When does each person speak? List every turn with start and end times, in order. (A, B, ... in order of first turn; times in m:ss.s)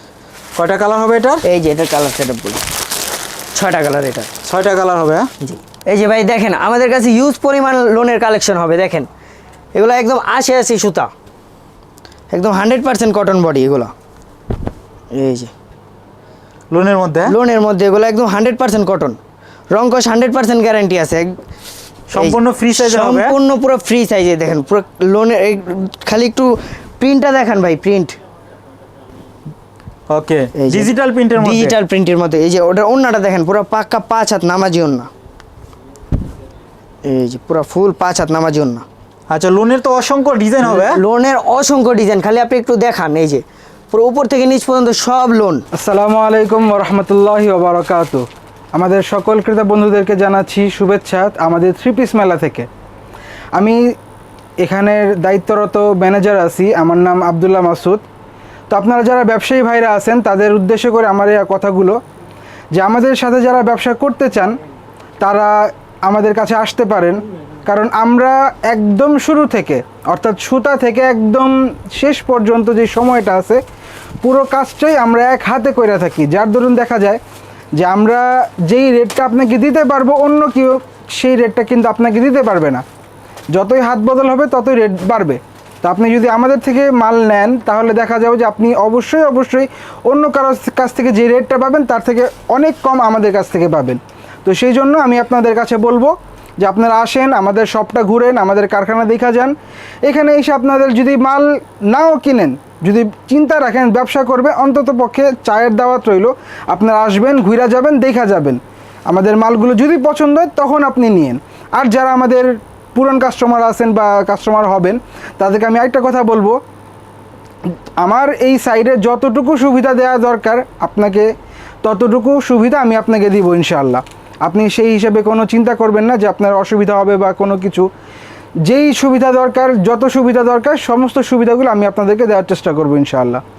0:00.6-0:01.4 A
0:01.4-0:02.6 B
0:03.5-0:04.3 B
0:04.4-0:05.3 A
0:05.4-0:09.1 B
0:09.8-0:11.1 B
0:12.3-0:13.9 B
0:15.1-0:15.5 B
0:16.7-0:17.3 A
0:17.3-0:19.2 B
0:19.7-0:21.4 B
0:22.1-0:23.4 A
0:22.2-0:28.2 B
0:30.1-0:31.8 A
0:30.6-0:35.1 B
0:37.0-0:38.8 B
0:39.3-0:41.0 A
0:40.6-0:45.6 B
0:45.7-0:52.7 C
0:53.6-0:53.8 C
0:54.6-0:58.0 C
0:58.7-1:02.0 C
1:02.8-1:04.6 C
1:05.2-1:13.6 C
1:14.2-1:17.2 C
1:17.8-1:22.8 C
1:23.5-1:39.5 C
1:40.0-1:56.6 C
1:58.0-2:01.3 C
2:01.8-2:07.9 C
2:08.7-2:13.4 C